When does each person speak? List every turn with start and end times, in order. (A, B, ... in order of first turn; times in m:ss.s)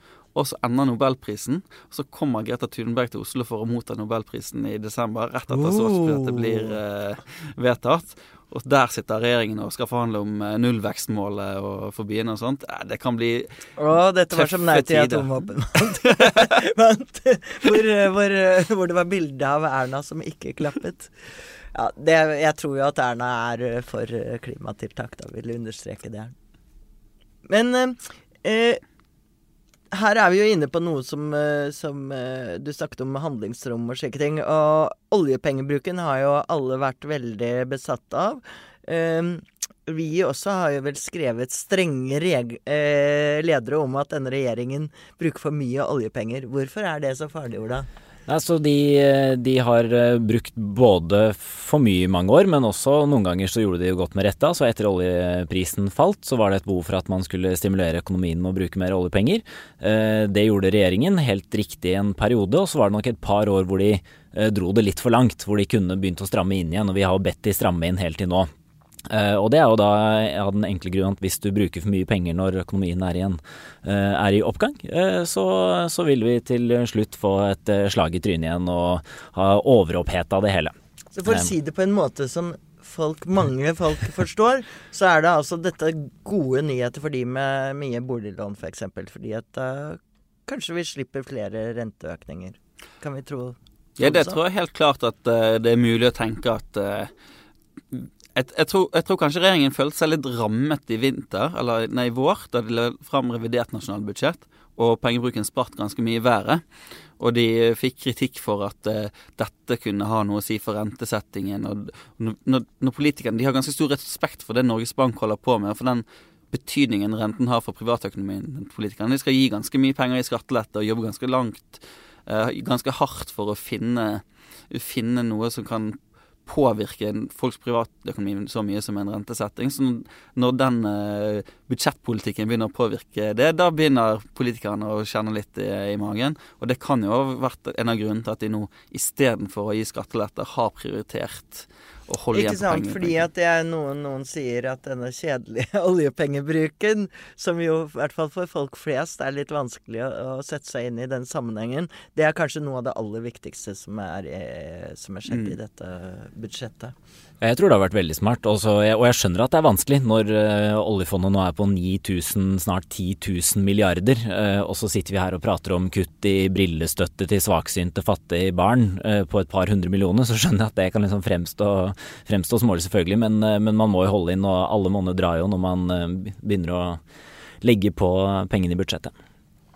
0:00.3-0:13.6 A
0:05.5-0:06.8 B
0:13.8-0:26.3 B
0:14.3-0:15.5 A
0:16.2-0:16.5 A
0:27.4-0:28.8 B
0:29.9-0:47.9 B
0:48.3-1:08.5 C
1:09.1-1:20.7 C
1:21.1-1:34.4 B
1:21.3-1:21.5 C
1:34.0-1:37.1 A
1:37.9-1:46.6 A
1:47.2-2:23.2 A
2:22.3-2:36.9 B
2:35.3-2:35.5 A
2:37.4-2:57.0 C
2:57.6-2:59.1 C